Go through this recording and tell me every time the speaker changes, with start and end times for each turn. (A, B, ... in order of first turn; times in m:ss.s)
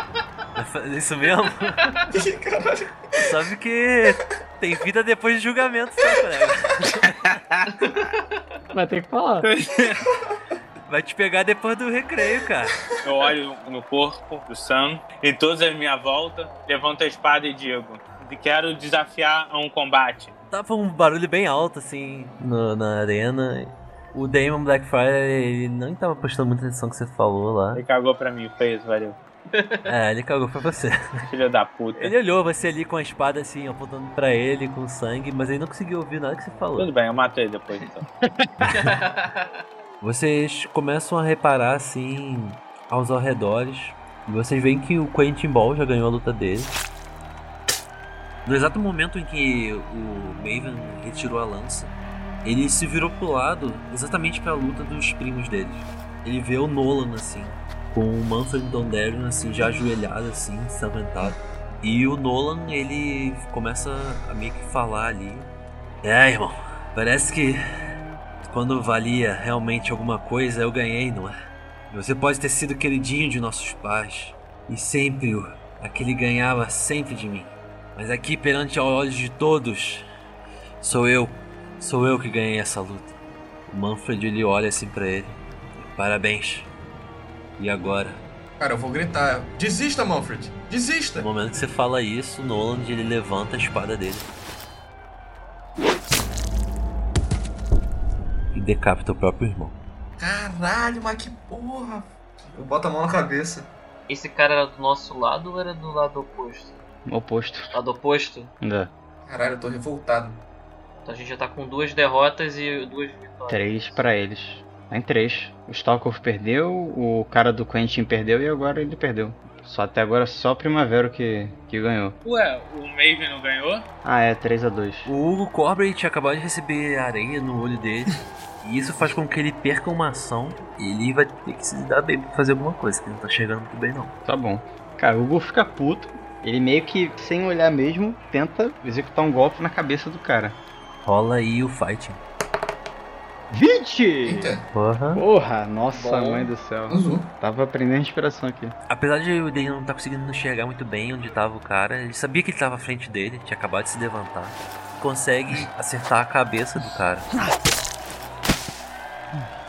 0:00.6-0:02.0 A
0:02.1-0:03.4 B
0:03.2-0:07.4 A
0:07.8-0:08.2 C
0:08.7-0:09.5 D
0:09.4-0:10.0 E
0:10.9-0:12.8 A
0:13.0-0:20.3 E
0:20.5-0:27.8 A
0:27.7-0:29.2 E
0:29.5-0:29.9 C
0:29.9-0:31.2 A
0:31.3-0:32.1 E
0:32.0-0:36.9 A
0:36.8-0:38.1 E
0:38.6-0:39.5 C
0:40.0-0:46.8 A
0:48.5-0:51.9 A
0:52.4-1:05.5 A
1:06.0-1:07.6 A
1:08.4-1:11.3 A
1:11.9-1:20.0 A
1:20.8-1:23.2 A
1:23.7-1:26.7 A
1:27.6-1:28.2 A
1:28.6-1:31.3 B
1:31.2-1:34.3 A
1:38.5-1:39.8 A
1:40.2-1:43.7 B
1:44.1-1:46.8 C
1:47.1-1:47.7 D
1:47.7-1:48.5 C
1:48.6-1:48.9 D
1:49.3-1:50.4 B
1:51.0-1:54.0 C
1:53.5-2:02.2 D
2:02.2-2:03.8 E
2:04.0-2:05.1 D
2:05.0-2:14.2 A
2:14.3-2:20.6 D
2:21.0-2:22.2 A
2:23.5-2:24.6 D
2:24.2-2:24.7 B
2:24.7-2:25.2 A
2:25.1-2:28.8 D
2:25.9-2:26.5 C
2:26.9-2:27.3 B
2:28.9-2:37.3 A